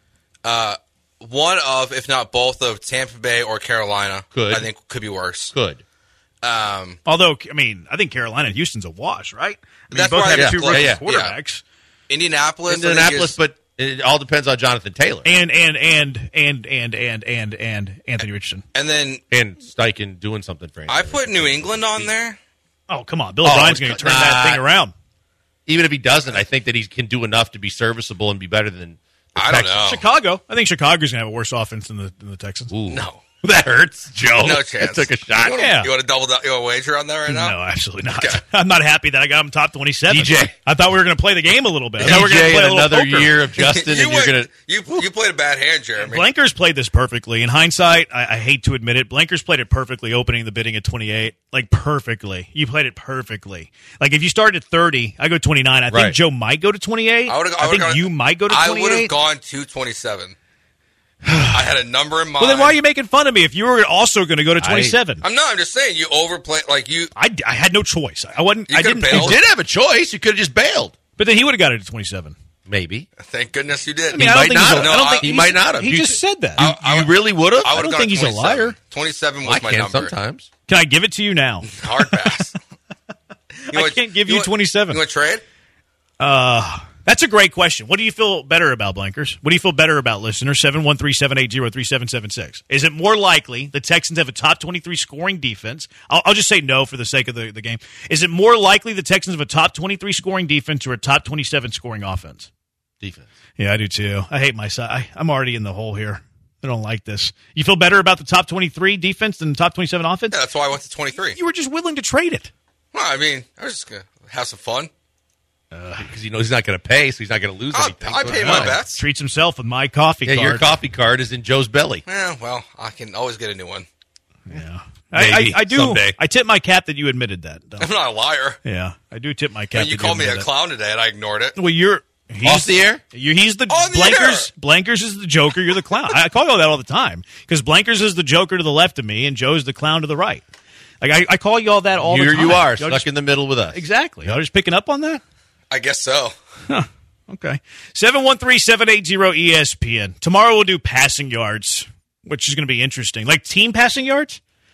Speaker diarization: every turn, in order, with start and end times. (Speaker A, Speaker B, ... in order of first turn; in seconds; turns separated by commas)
Speaker A: 0.4-5.5, Speaker B: 4.3-4.7, Speaker B: 5.5-5.8, Speaker A: 6.4-7.0, Speaker C: 7.0-11.6, Speaker A: 9.9-11.3, Speaker B: 10.3-11.0, Speaker A: 12.1-13.3, Speaker B: 12.7-15.3, Speaker C: 15.2-18.6, Speaker A: 18.7-19.2, Speaker B: 19.3-22.1, Speaker A: 20.9-22.4, Speaker C: 22.9-24.9, Speaker B: 23.4-24.6, Speaker B: 25.7-29.9, Speaker A: 29.4-30.0, Speaker C: 29.8-32.7, Speaker B: 32.7-35.7, Speaker A: 32.9-33.2, Speaker A: 34.4-37.6, Speaker C: 35.5-35.9, Speaker C: 37.3-43.3, Speaker A: 38.1-38.4, Speaker B: 40.1-40.5, Speaker B: 42.0-44.5, Speaker A: 43.6-46.2, Speaker C: 46.0-59.1, Speaker B: 55.9-56.1, Speaker A: 57.3-60.3, Speaker C: 61.2-61.5, Speaker A: 61.5-62.8, Speaker C: 62.4-65.2, Speaker B: 64.6-65.0, Speaker A: 65.2-67.1, Speaker C: 67.2-69.4, Speaker A: 68.7-69.4, Speaker B: 69.1-70.9, Speaker C: 71.2-72.3, Speaker B: 72.7-73.1, Speaker A: 73.2-75.3, Speaker C: 74.1-76.6, Speaker B: 74.1-77.8, Speaker A: 76.6-80.1, Speaker C: 77.7-78.7, Speaker B: 79.4-80.5, Speaker C: 80.7-81.7, Speaker A: 81.7-82.5, Speaker C: 83.7-85.0, Speaker A: 83.7-85.4, Speaker C: 86.2-102.5, Speaker B: 103.0-103.3, Speaker C: 103.6-110.4, Speaker A: 110.3-111.4, Speaker C: 111.3-112.5, Speaker A: 112.9-114.9, Speaker C: 115.7-116.1, Speaker B: 116.0-118.8, Speaker A: 117.7-119.0, Speaker C: 118.2-120.7, Speaker B: 120.2-122.0, Speaker A: 122.0-123.8, Speaker C: 124.5-127.9, Speaker B: 125.1-126.2, Speaker A: 127.8-128.6, Speaker C: 128.6-130.5, Speaker A: 129.7-131.6, Speaker C: 131.6-140.4, Speaker B: 132.4-133.0, Speaker A: 133.7-134.5, Speaker C: 141.0-143.1, Speaker B: 142.0-144.3, Speaker C: 143.7-145.2, Speaker A: 145.7-146.3, Speaker C: 146.7-154.4